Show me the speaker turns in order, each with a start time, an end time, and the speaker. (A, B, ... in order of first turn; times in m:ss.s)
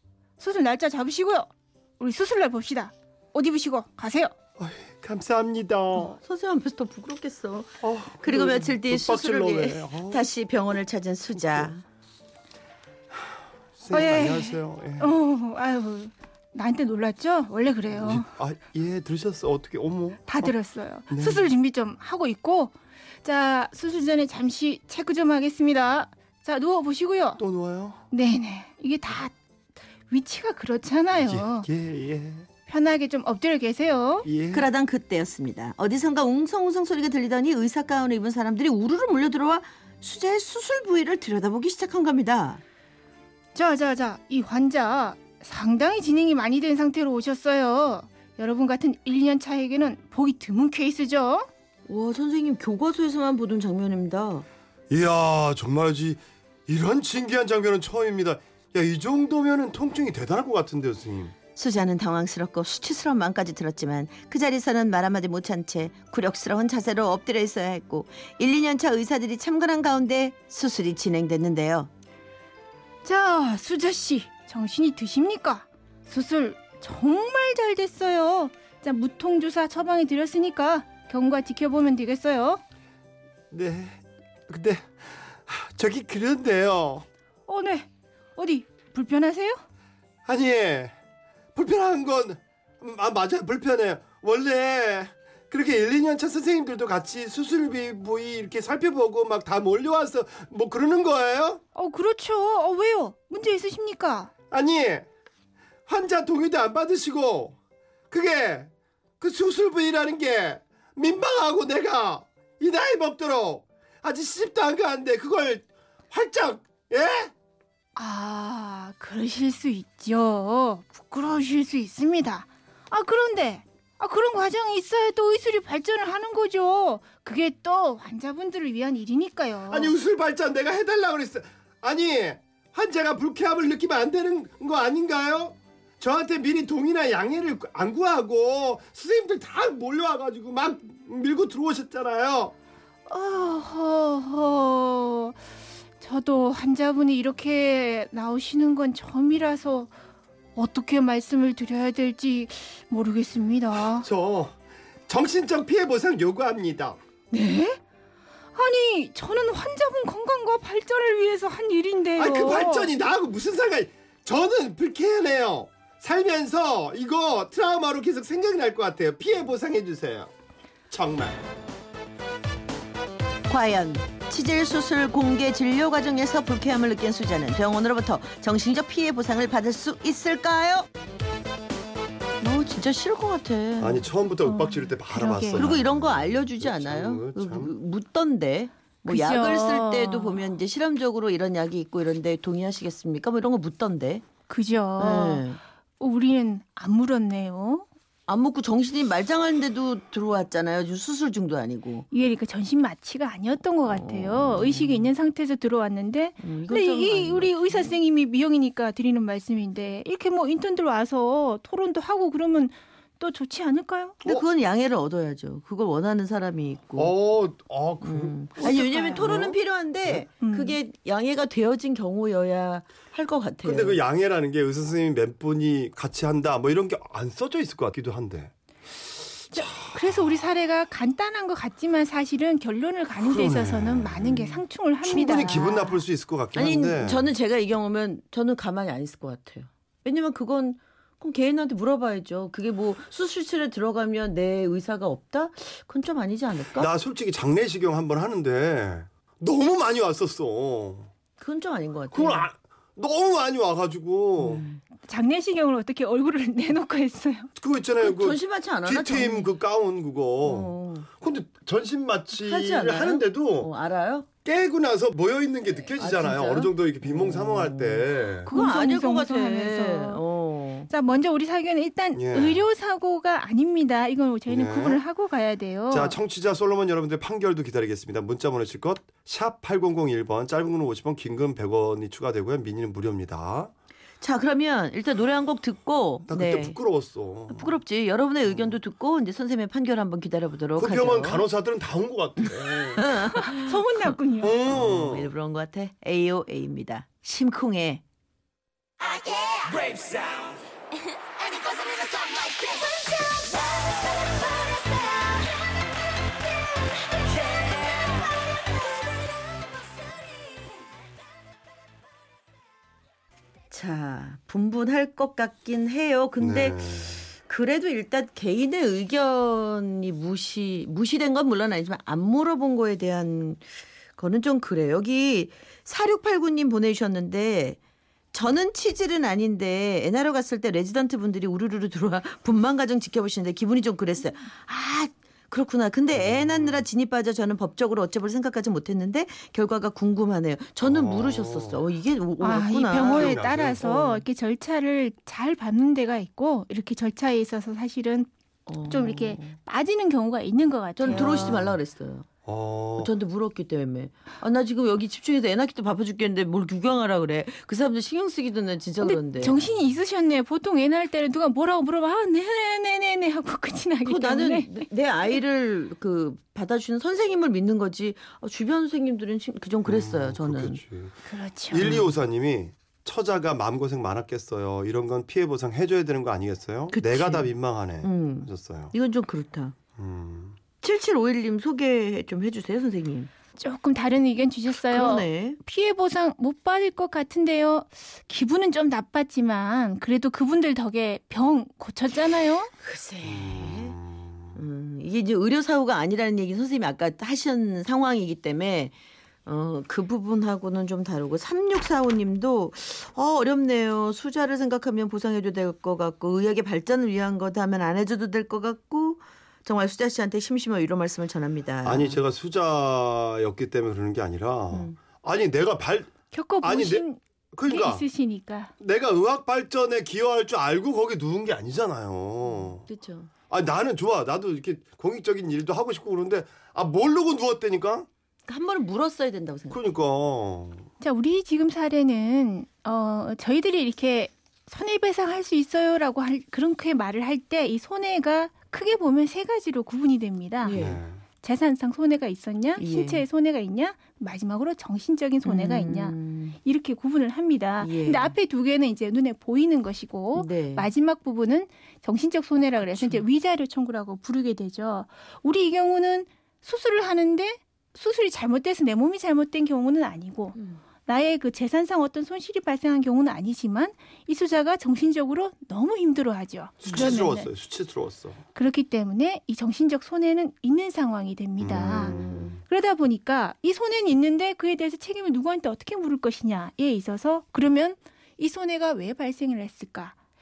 0:00.4-0:04.3 A
0:04.6-0:06.2 B
0:06.0-0:11.8 C
0:07.8-0:10.2 B
0:11.4-0:11.7 B
0:13.8-0:15.1 B
0:13.9-0:18.2 A
0:17.9-0:20.5 B
0:20.3-0:27.4 A
0:21.1-0:21.5 B
0:27.4-0:28.0 B
0:28.1-0:29.3 A
0:30.1-0:31.7 A
0:31.2-0:32.4 B
0:32.7-0:34.3 A
0:34.2-0:34.7 B
0:34.5-0:42.6 C
0:43.5-0:51.5 A
0:51.9-0:54.4 C
0:54.9-1:01.3 B
1:01.6-1:11.9 C
1:13.0-1:22.6 A
1:23.5-1:27.0 B
1:27.5-1:29.6 A
1:30.2-1:30.9 B
1:31.5-1:41.6 B
1:41.7-1:44.3 A
1:44.5-1:45.0 B
1:45.9-1:47.5 B
1:48.1-1:57.3 B
1:58.0-2:09.9 A
2:09.7-2:22.5 B
2:23.1-2:25.4 A
2:26.0-2:29.9 A
2:30.6-2:34.0 A
2:33.8-2:34.6 B
2:35.1-2:37.0 B
2:37.3-2:37.8 A
2:38.5-2:42.9 A
2:42.2-2:50.3 B
2:50.9-2:51.4 B
2:53.5-3:00.9 C
3:02.4-3:04.1 C
3:03.8-3:07.7 B
3:04.4-3:05.7 A
3:05.5-3:14.2 C
3:09.0-3:10.5 A
3:14.5-3:15.5 A
3:15.0-3:15.6 C
3:16.0-3:17.8 A
3:18.3-3:22.0 C
3:22.1-3:34.2 A
3:23.9-3:25.1 C
3:26.4-3:28.0 C
3:34.2-3:37.2 C
3:36.9-3:40.2 B
3:38.0-3:44.0 C
3:38.6-3:39.5 A
3:40.4-3:40.8 A
3:43.6-3:48.5 B
3:49.5-3:50.4 B
3:49.5-3:56.0 A
3:53.2-3:57.3 B
3:54.4-3:54.6 C
3:56.5-4:06.9 C
4:06.7-4:11.1 B
4:11.4-4:12.5 C
4:12.1-4:14.6 B
4:14.4-4:14.8 C
4:15.0-4:17.5 A
4:17.6-4:23.7 B
4:18.0-4:19.5 C
4:20.4-4:21.1 C
4:22.3-4:24.3 C
4:24.4-4:28.5 B
4:26.0-4:30.9 C
4:28.4-4:30.2 A
4:30.9-4:36.2 A
4:32.2-4:32.7 B
4:34.5-4:35.0 B
4:35.9-4:43.7 B
4:44.2-4:46.8 C
4:46.3-4:47.8 B
4:47.5-4:51.4 C
4:50.8-4:53.0 B
4:53.0-4:53.6 C
4:53.2-4:54.6 A
4:54.4-4:55.3 B
4:54.7-4:58.0 C
5:13.7-5:23.6 C
5:16.4-5:17.2 B
5:24.2-5:27.8 C
5:28.3-5:43.3 C
5:36.1-5:36.8 B
5:40.8-5:41.8 B
5:42.4-5:48.3 A
5:43.0-5:44.2 B
5:48.7-5:49.6 C
5:48.8-5:51.7 A
5:51.0-5:52.3 C
5:51.1-5:51.8 B
5:52.4-5:53.1 B
5:53.0-5:59.6 C
5:59.0-6:05.4 A
6:04.0-6:10.8 C
6:09.8-6:18.9 B
6:11.3-6:12.0 A
6:11.8-6:12.1 C
6:16.9-6:19.8 C
6:20.0-6:20.6 B
6:20.8-6:23.3 C
6:23.6-6:32.7 A
6:24.8-6:25.6 C
6:32.8-6:34.0 C
6:33.2-6:34.3 B
6:34.5-6:38.9 C
6:39.4-6:52.2 C
6:51.8-6:58.0 B
6:54.7-6:55.0 C
6:56.3-6:58.7 A
6:58.8-7:02.8 B
7:02.4-7:03.3 C
7:03.5-7:08.1 B
7:08.5-7:09.9 C
7:09.7-7:10.9 B
7:11.0-7:20.8 A
7:20.6-7:21.0 C
7:20.7-7:21.2 B
7:21.4-7:47.5 A
7:22.8-7:23.2 C
7:25.4-7:26.6 C
7:27.8-7:28.4 C
7:30.3-7:30.9 C
7:32.8-7:33.2 C
7:40.5-7:40.8 C
7:46.8-7:48.4 B
7:46.8-7:47.1 C
7:48.5-7:52.2 A
7:51.6-7:52.6 B
7:51.7-7:52.6 C
7:52.7-8:00.1 A